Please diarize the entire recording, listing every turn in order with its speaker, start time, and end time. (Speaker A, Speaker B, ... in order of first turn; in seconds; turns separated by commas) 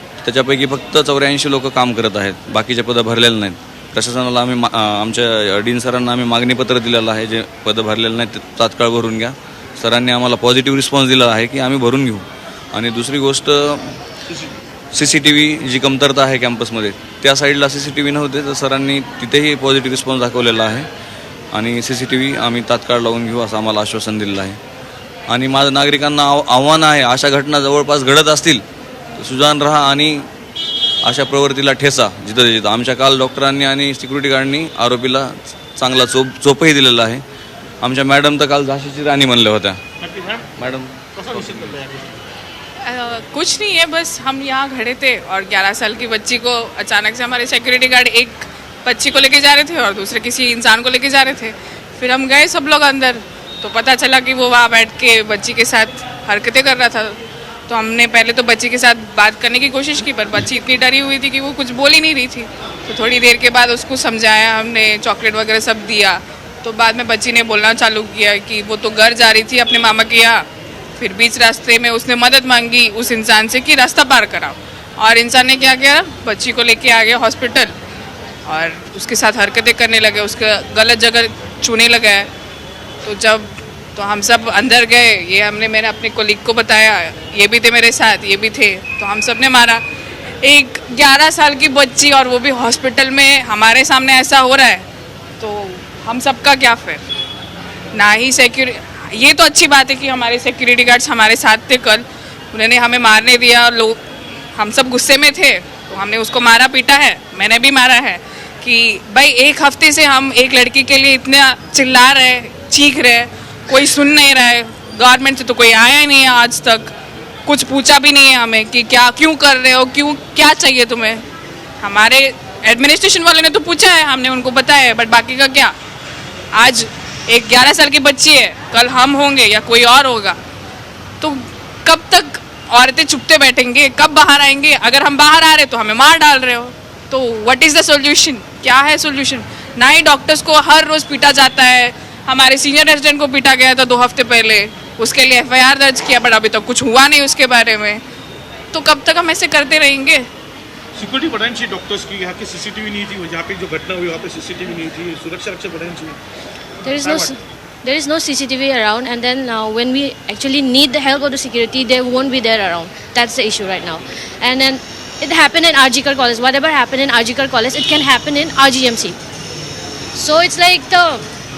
Speaker A: 0.2-13.9, Speaker A: 14.9-20.9, Speaker A: 21.5-24.6, Speaker A: 25.3-28.6, Speaker A: 29.1-30.2, Speaker A: 31.0-37.2, Speaker A: 37.8-39.8, Speaker B: 40.1-40.5, Speaker A: 40.6-41.8, Speaker B: 41.2-42.0, Speaker C: 42.9-57.2, Speaker C: 57.7-70.4, Speaker C: 71.0-77.7, Speaker C: 78.5-82.3, Speaker C: 83.0-89.8, Speaker C: 90.4-94.8, Speaker C: 95.4-97.0, Speaker C: 97.9-104.0, Speaker C: 104.5-116.9, Speaker C: 117.5-121.2, Speaker C: 121.8-125.7, Speaker C: 126.5-130.4, Speaker C: 131.2-148.0, Speaker C: 148.7-150.3, Speaker B: 150.9-156.2, Speaker D: 156.8-169.2, Speaker B: 157.0-157.3, Speaker D: 170.2-171.2